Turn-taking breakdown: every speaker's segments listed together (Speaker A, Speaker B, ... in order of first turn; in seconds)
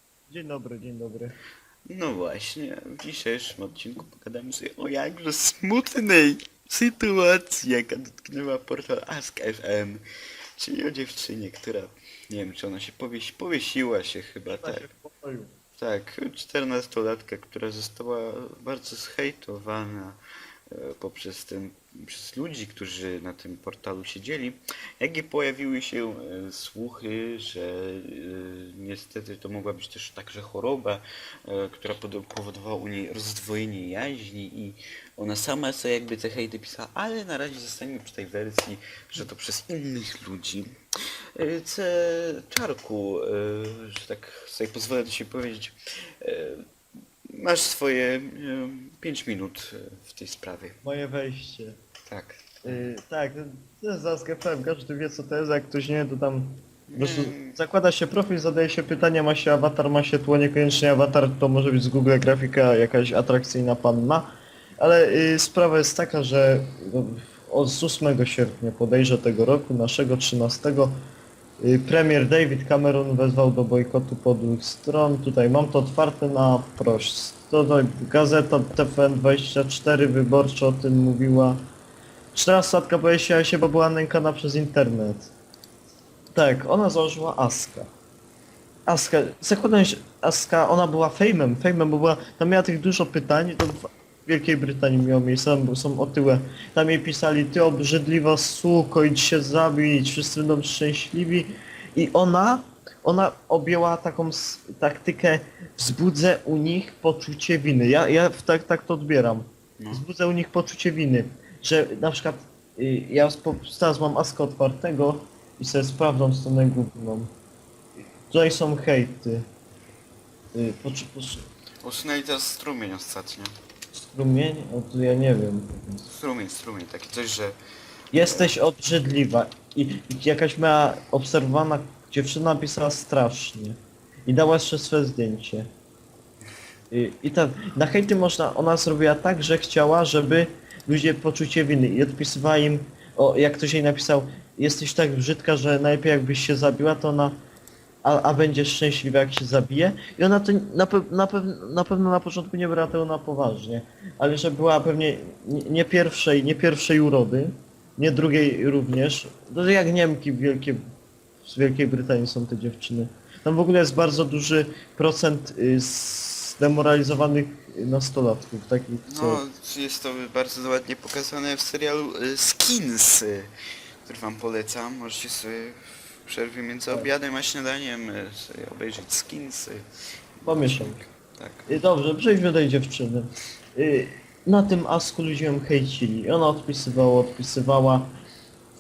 Speaker A: 0.3-1.4, 14.5-15.5, 50.8-51.7, 52.6-64.3, 64.8-70.9, 71.6-81.6, 82.3-85.3, 86.3-87.9, 88.9-117.3, 118.3-119.4, 120.5-121.4, 123.9-126.1, 128.1-135.7, 136.9-147.3, 148.0-160.8, 161.4-169.4, 180.4-181.0, 181.7-188.1
Speaker B: 1.9-10.0, 10.6-14.9, 15.8-20.2, 20.7-40.7, 41.4-46.6, 47.3-50.7, 52.1-52.8, 56.9-57.6, 109.8-110.0, 121.8-123.5, 126.1-127.6, 128.2-128.5, 169.1-173.5, 174.0-179.8, 180.4-181.7